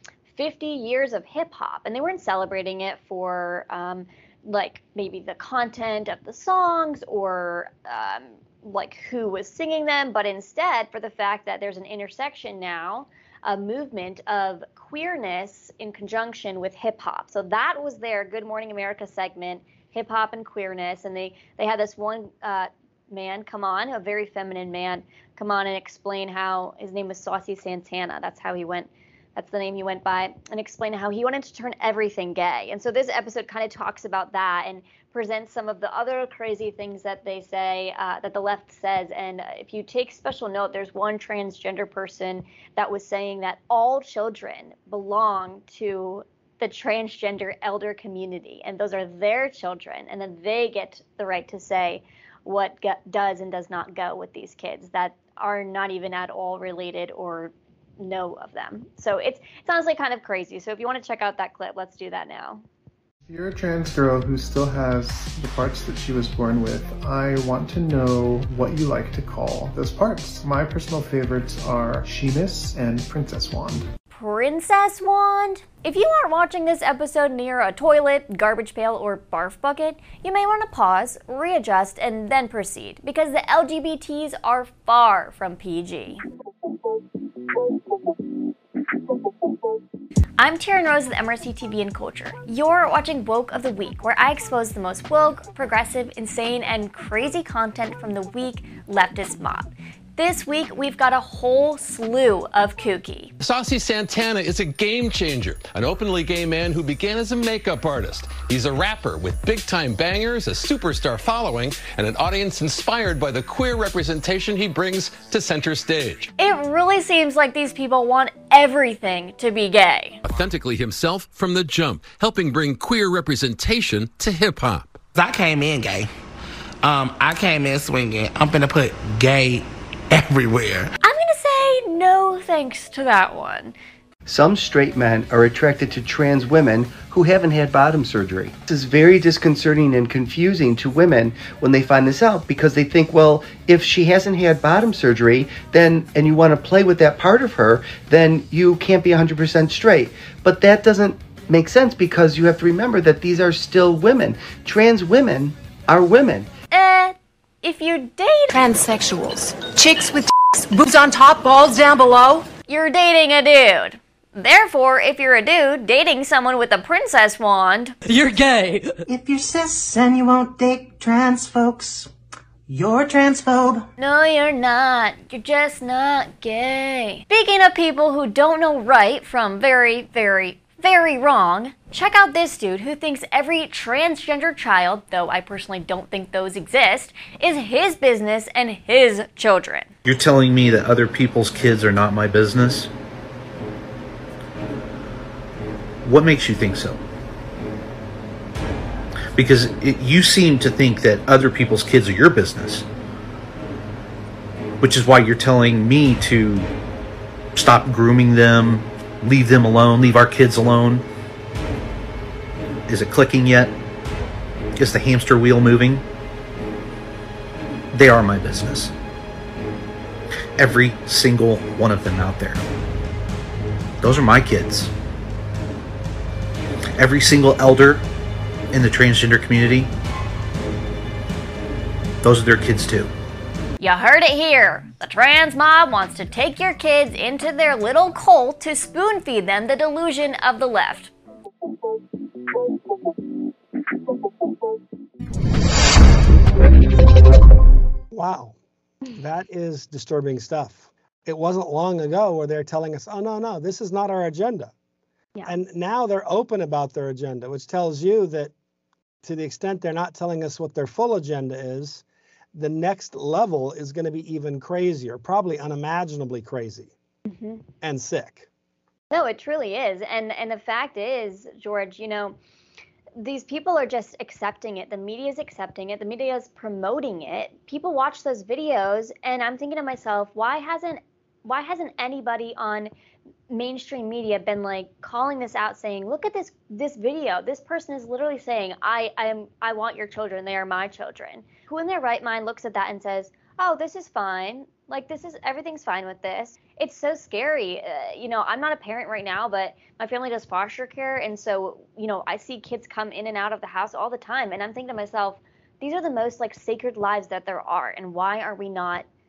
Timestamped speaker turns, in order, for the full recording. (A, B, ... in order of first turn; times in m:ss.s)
0:00.3-1:02.6 A
1:03.3-1:13.9 B
1:14.1-1:26.2 A
1:30.4-1:43.3 A
1:43.4-1:56.3 C
1:56.4-2:00.2 A
2:00.2-2:05.0 C
2:05.2-2:06.1 D
2:06.8-2:10.9 D
2:11.0-2:13.8 A
2:14.3-2:36.5 E
2:36.7-2:38.5 A
2:38.5-2:42.5 F
2:42.7-2:48.0 A
2:48.1-2:48.8 F
2:49.1-2:52.1 G
2:52.7-2:53.9 G
2:54.0-3:09.9 A
3:10.1-3:12.9 H
3:16.0-3:17.0 H
3:19.4-3:22.8 H
3:24.8-3:26.7 H
3:27.6-3:31.0 H
3:32.9-3:33.7 H
3:34.8-3:36.0 H
3:37.9-3:38.9 H
3:40.6-3:42.6 H
3:44.0-3:44.9 H
3:47.0-3:48.0 H
3:48.7-3:49.9 H
3:52.2-3:53.1 H
3:53.8-4:01.1 A
4:08.1-4:08.6 I
4:09.1-4:14.7 I
4:15.5-4:18.5 I
4:19.2-4:22.0 I
4:22.6-4:26.9 I
4:27.3-4:27.6 A
4:27.8-4:28.5 I
4:29.1-4:32.4 A
4:33.2-4:42.9 A
4:43.5-5:09.1 A